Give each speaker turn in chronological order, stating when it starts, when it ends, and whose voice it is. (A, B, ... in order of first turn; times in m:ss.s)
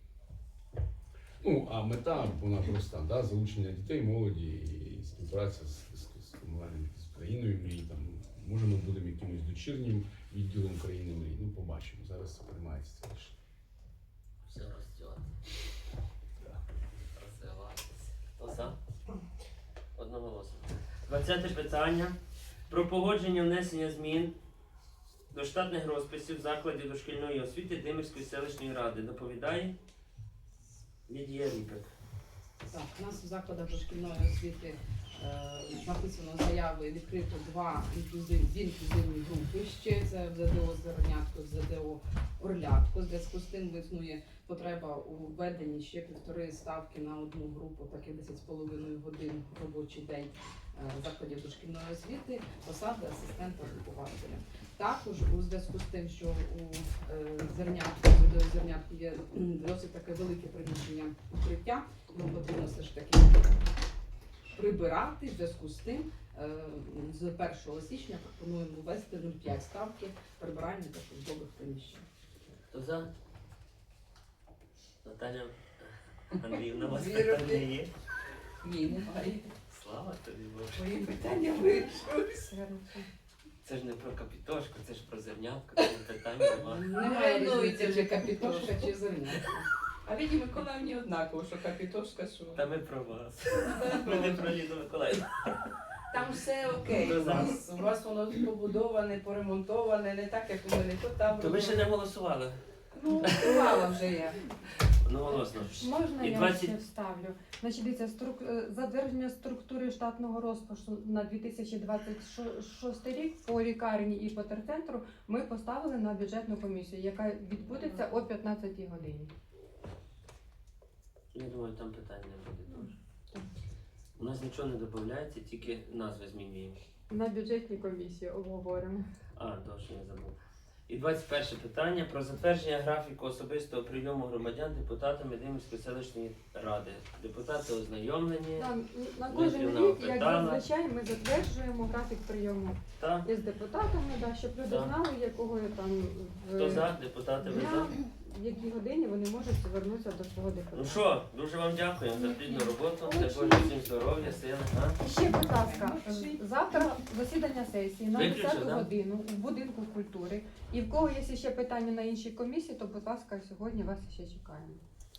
0:01.4-0:13.3 A
0:14.5-0:15.4 B
0:17.1-0:18.8 B
0:20.0-0:22.2 B
0:22.7-0:24.3 B
0:25.3-0:29.7 B
0:31.1-0:31.9 B
0:32.7-1:03.6 C
1:04.5-1:12.0 C
1:12.7-1:13.1 B
1:15.0-1:17.9 B
1:16.8-1:17.7 D
1:18.6-1:19.5 D
1:19.7-1:20.8 B
1:20.7-1:22.5 D
1:22.5-1:23.0 E
1:23.6-1:26.9 B
1:26.7-1:29.7 C
1:26.9-1:28.9 D
1:30.0-1:32.6 D
1:32.5-1:35.6 B
1:33.6-1:34.4 D
1:36.1-1:41.9 D
1:36.9-1:37.5 B
1:41.4-1:42.6 B
1:42.9-1:44.4 D
1:43.3-1:43.6 B
1:45.0-1:46.7 B
1:45.8-1:59.3 E
2:01.3-2:03.0 B
2:04.2-2:06.8 B
2:07.1-2:09.1 E
2:09.4-2:10.3 B
2:10.9-2:18.7 B
2:18.6-2:26.9 E
2:19.3-2:20.6 B
2:23.0-2:23.3 B
2:24.6-2:24.9 B
2:26.5-2:27.9 B
2:27.4-2:31.0 E
2:30.7-2:35.0 B
2:35.0-2:44.8 E
2:35.3-2:36.4 C
2:38.1-2:38.9 B